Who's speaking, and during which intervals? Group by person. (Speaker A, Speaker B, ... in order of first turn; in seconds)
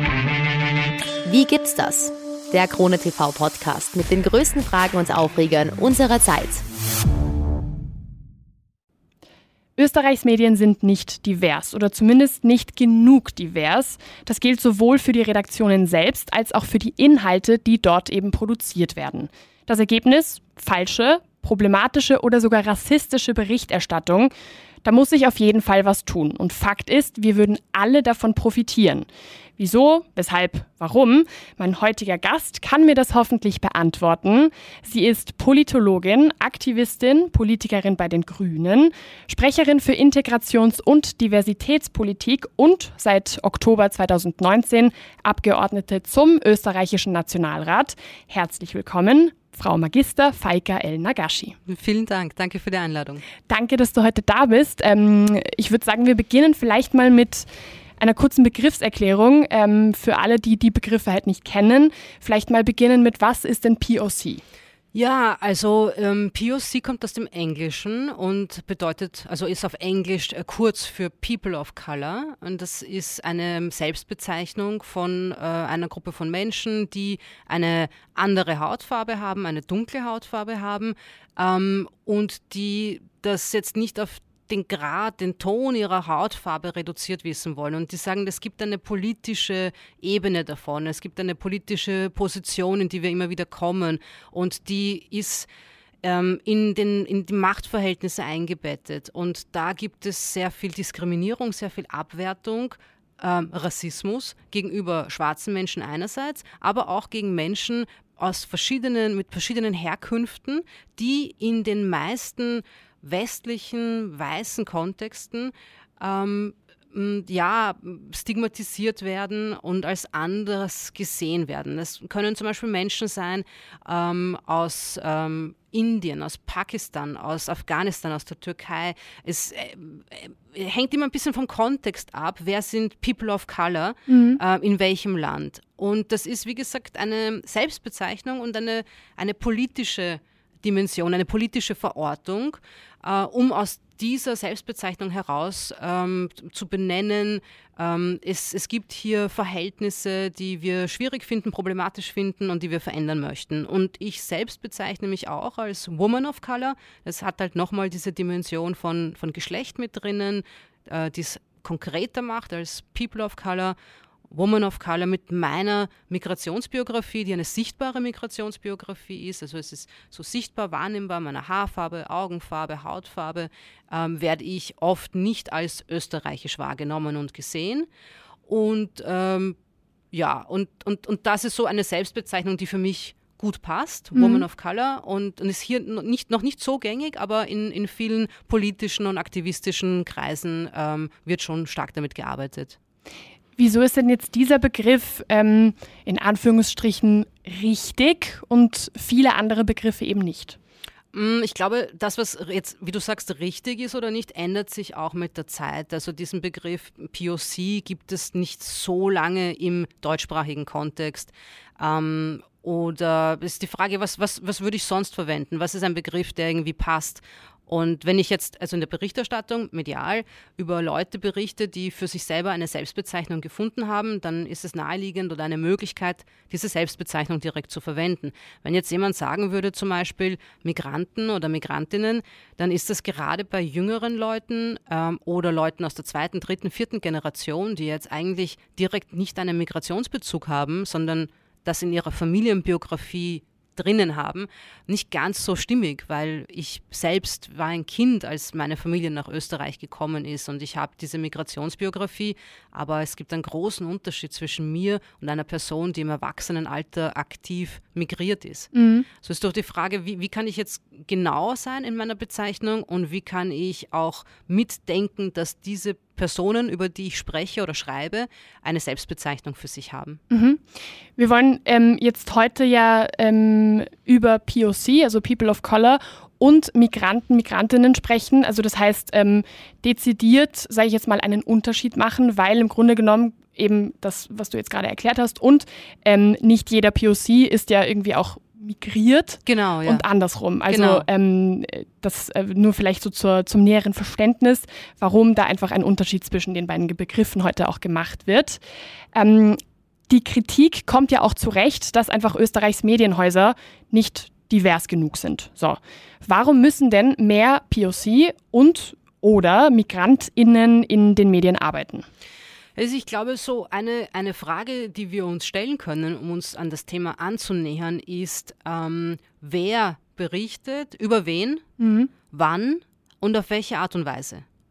Speaker A: 1.2-6.6
Speaker B: 9.8-24.3, 24.8-29.1, 29.6-51.6, 53.5-57.5, 58.0-64.4, 134.1-134.4, 184.2-184.4, 193.6-200.6, 258.7-259.1, 270.3-298.6, 299.1-312.1, 321.8-322.1
Speaker C: 51.7-53.2, 64.9-95.5, 96.0-163.8, 164.3-177.9, 178.5-179.6, 180.1-192.8, 201.1-258.7, 259.2-270.2, 289.5-290.1, 290.7-291.1, 312.8-321.6, 322.3-324.4